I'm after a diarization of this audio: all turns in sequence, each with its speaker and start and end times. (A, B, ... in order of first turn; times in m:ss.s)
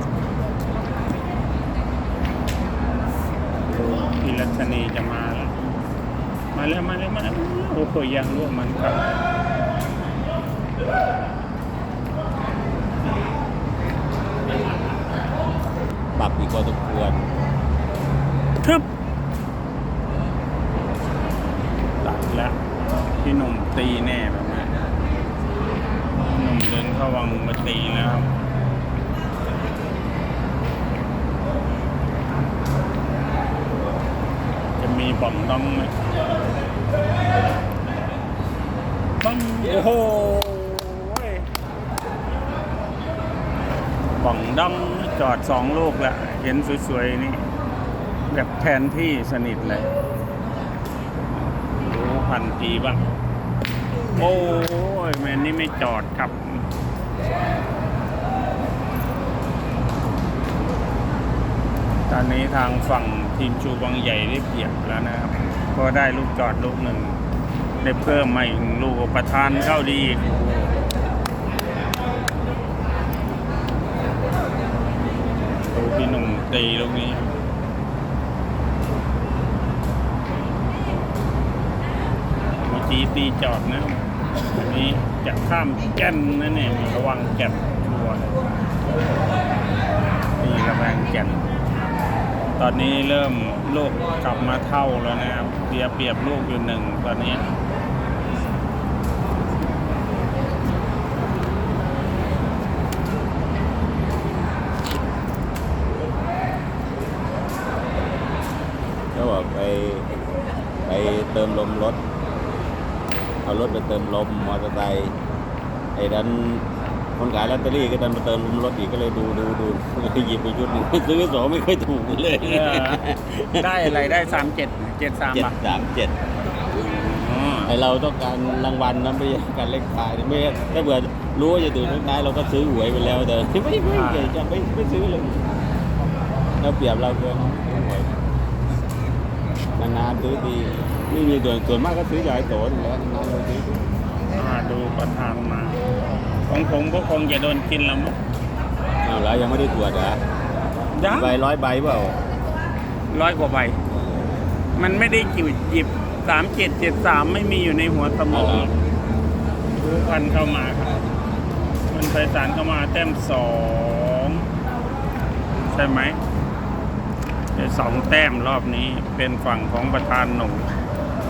0:03.7-0:05.5 A
0:06.5-0:09.0 A
0:16.1-0:17.2 B
0:22.0-0:22.6 A
0:23.2-0:24.7 A
0:26.2-0:28.3 A
0:34.8-0:35.9 A
0:39.2-0:41.4 A
0:44.1-0:47.4 A
0:48.3-0:49.9 A
0:51.8-0:53.0 A
0:54.1-0:56.6 A
1:02.1-1:07.2 A
1:07.8-1:10.3 A
1:15.7-1:17.3 A
1:22.6-1:24.0 A
1:24.5-1:28.4 A
1:30.4-1:31.5 A
1:32.6-1:37.5 A
1:49.1-1:50.1 B
1:50.8-1:52.0 B
1:53.4-1:55.2 B
1:55.9-1:56.6 B
1:57.2-2:04.2 B
2:02.4-2:03.0 A
2:03.5-2:05.5 A
2:05.3-2:06.1 B
2:06.7-2:07.7 A
2:07.6-2:15.4 B
2:13.9-2:14.3 A
2:16.6-2:18.1 B
2:19.8-2:23.8 B
2:24.3-2:25.8 A
2:26.5-2:28.2 A
2:29.0-2:30.2 B
2:30.9-2:31.3 A
2:31.0-2:32.2 B
2:33.1-2:33.8 A
2:34.8-2:38.7 A
2:38.3-2:38.7 B
2:39.8-2:41.0 A
2:41.9-2:44.5 A
2:45.7-2:46.2 A
2:47.5-2:50.7 A